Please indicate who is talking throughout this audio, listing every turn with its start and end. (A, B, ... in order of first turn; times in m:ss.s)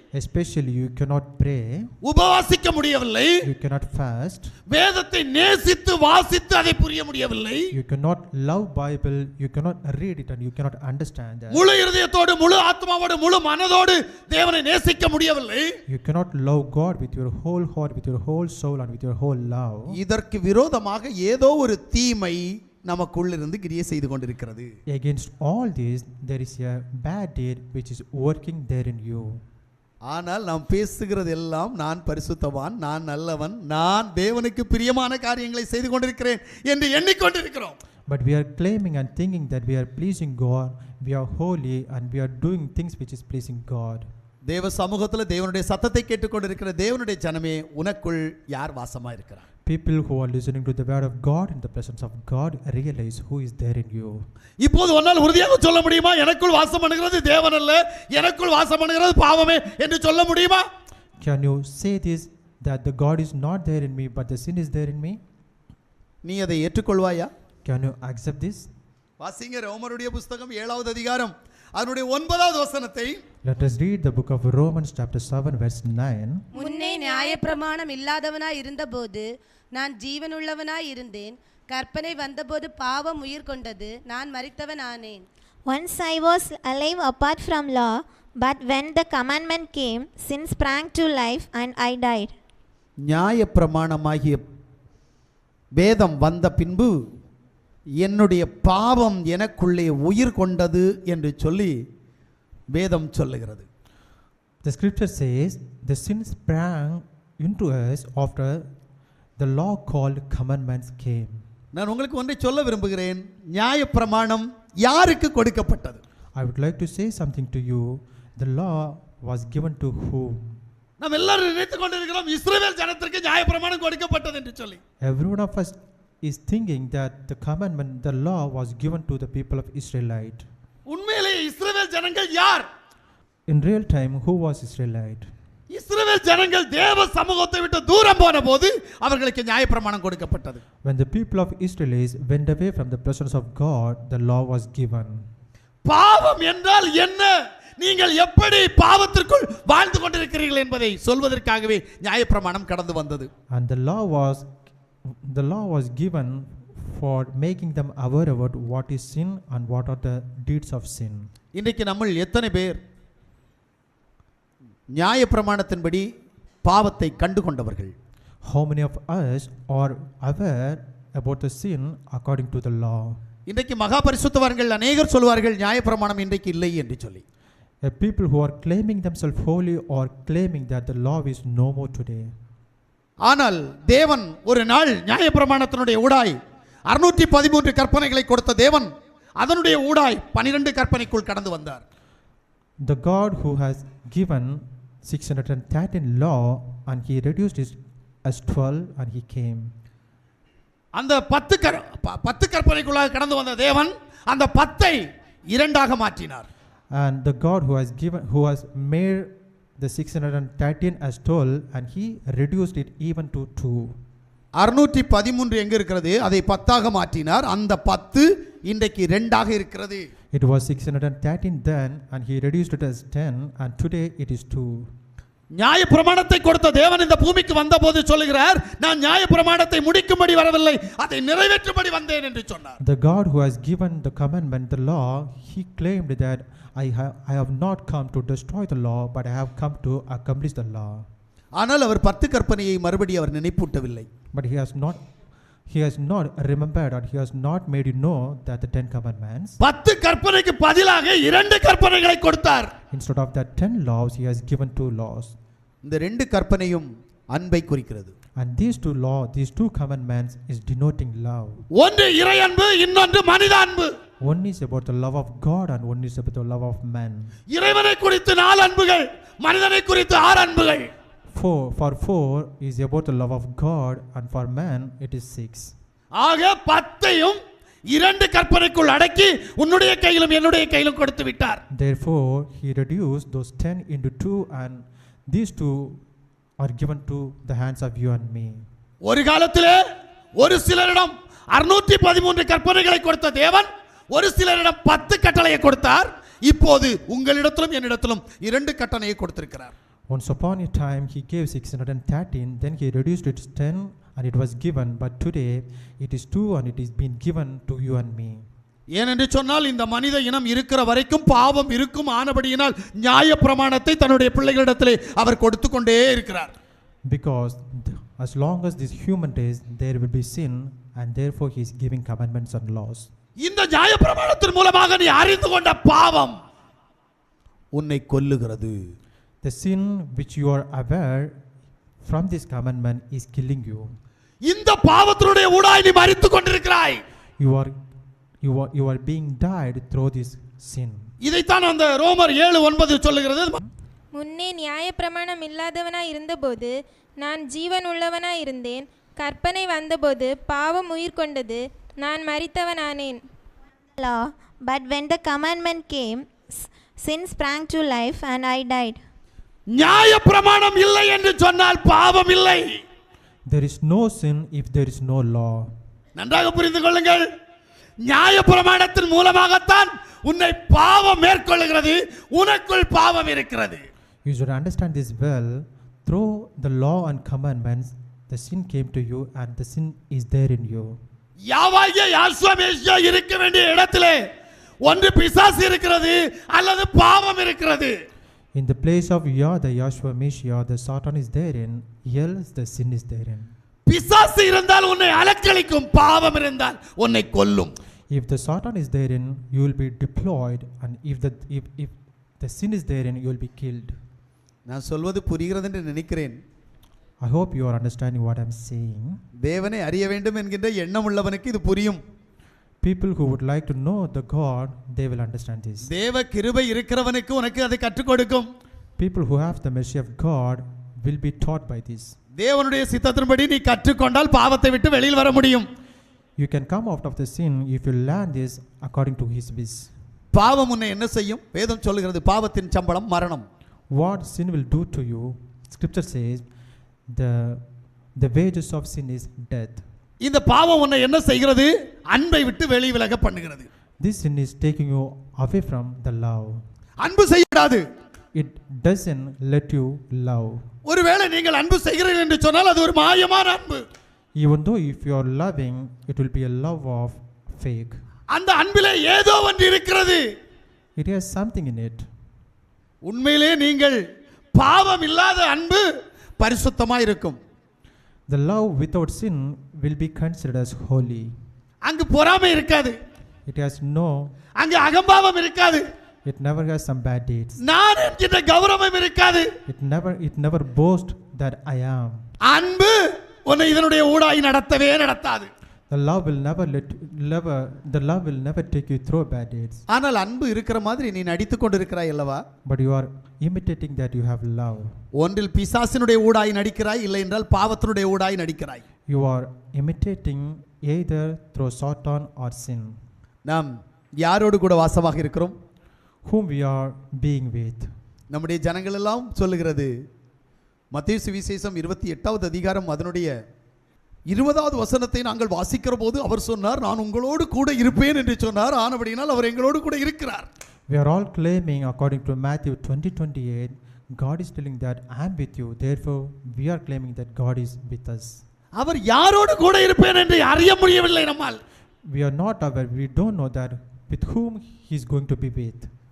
0:00.1-0:01.9 A
0:02.0-0:03.4 B
0:03.4-0:04.5 A
0:04.7-0:07.7 B
0:07.7-0:11.6 A
0:11.5-0:15.7 B
0:15.9-0:20.0 A
0:19.9-0:24.7 B
0:24.9-0:29.4 A
0:30.1-0:37.8 B
0:38.1-0:44.1 A
0:44.5-0:49.4 B
0:49.6-0:54.2 A
0:54.6-1:00.6 B
1:01.2-1:05.2 A
1:06.2-1:07.3 B
1:07.6-1:08.7 A
1:09.2-1:13.2 B
1:13.4-1:16.5 A
1:16.5-1:25.2 C
1:16.6-1:17.6 D
1:25.7-1:32.3 E
1:33.0-1:34.4 B
1:35.7-1:36.9 B
1:38.0-1:41.7 B
1:42.7-1:43.6 B
1:44.6-1:48.7 A
1:49.4-1:51.4 A
1:51.7-1:56.0 B
1:56.4-2:00.6 A
2:01.0-2:04.8 B
2:05.0-2:10.4 A
2:10.9-2:12.7 B
2:13.5-2:15.3 A
2:15.7-2:20.6 B
2:20.8-2:25.3 A
2:25.8-2:33.3 B
2:33.5-2:34.5 A
2:35.2-2:41.3 A
2:41.5-2:42.8 B
2:44.9-2:46.0 B
2:46.6-2:47.9 B
2:48.4-2:53.2 A
2:53.5-2:57.2 B
2:57.8-3:02.3 A
3:03.2-3:06.4 B
3:06.9-3:11.8 B
3:12.8-3:19.7 A
3:20.9-3:26.4 B
3:26.9-3:34.0 A
3:34.6-3:40.1 B
3:40.3-3:44.9 A
3:45.5-3:52.8 B
3:52.8-4:01.1 A
4:01.5-4:04.1 B
4:04.3-4:05.0 A
4:05.7-4:09.6 A
4:09.6-4:12.7 B
4:12.9-4:15.4 A
4:15.8-4:18.1 B
4:18.4-4:21.6 A
4:21.8-4:23.9 B
4:24.2-4:27.3 A
4:27.5-4:30.9 B
4:31.3-4:35.7 A
4:36.1-4:37.4 B
4:37.9-4:41.6 B
4:41.7-4:46.0 A
4:46.6-4:48.6 A
4:49.0-4:49.8 B
4:50.4-4:59.7 B
5:00.1-5:08.4 A
5:08.9-5:16.5 B
5:17.0-5:23.1 A
5:23.4-5:26.4 B
5:27.7-5:28.8 B
5:29.4-5:31.3 A
5:32.0-5:33.9 A
5:34.4-5:37.0 B
5:37.4-5:37.7 A
5:38.4-5:41.1 A
5:41.2-5:43.6 B
5:44.1-5:53.2 D
5:54.0-5:59.0 E
5:59.7-6:02.8 B
6:03.5-6:05.7 A
6:06.2-6:07.3 B
6:08.0-6:13.8 B
6:14.2-6:21.0 A
6:21.4-6:24.2 B
6:24.8-6:27.9 B
6:28.5-6:33.5 A
6:33.8-6:37.7 B
6:38.1-6:44.0 A
6:44.7-6:46.4 B
6:47.2-6:49.2 A
6:49.4-6:52.0 B
6:52.8-6:55.9 A
6:55.9-6:58.5 B
6:59.0-7:02.2 A
7:02.4-7:05.7 B
7:06.4-7:09.9 A
7:10.3-7:13.4 B
7:13.9-7:16.4 A
7:17.1-7:17.6 A
7:18.2-7:19.8 A
7:20.2-7:23.7 B
7:24.0-7:26.6 A
7:27.0-7:27.8 B
7:28.3-7:30.6 A
7:30.8-7:33.8 B
7:34.4-7:38.0 A
7:38.3-7:40.2 B
7:41.0-7:42.1 A
7:43.0-7:44.0 B
7:44.5-7:45.8 B
7:46.4-7:47.4 B
7:48.3-7:51.4 A
7:51.8-7:53.0 B
7:53.4-7:54.3 A
7:54.6-7:55.8 B
7:56.2-7:57.6 A
7:57.6-7:59.5 B
7:59.7-8:02.2 A
8:02.4-8:05.5 B
8:05.9-8:09.8 A
8:09.9-8:12.4 B
8:12.6-8:15.0 A
8:15.2-8:18.8 B
8:19.1-8:23.0 A
8:24.2-8:25.5 B
8:26.2-8:27.9 A
8:28.3-8:29.9 B
8:30.9-8:33.3 B
8:34.3-8:40.5 B
8:40.9-8:48.4 A
8:48.7-8:51.6 B
8:52.1-8:55.9 A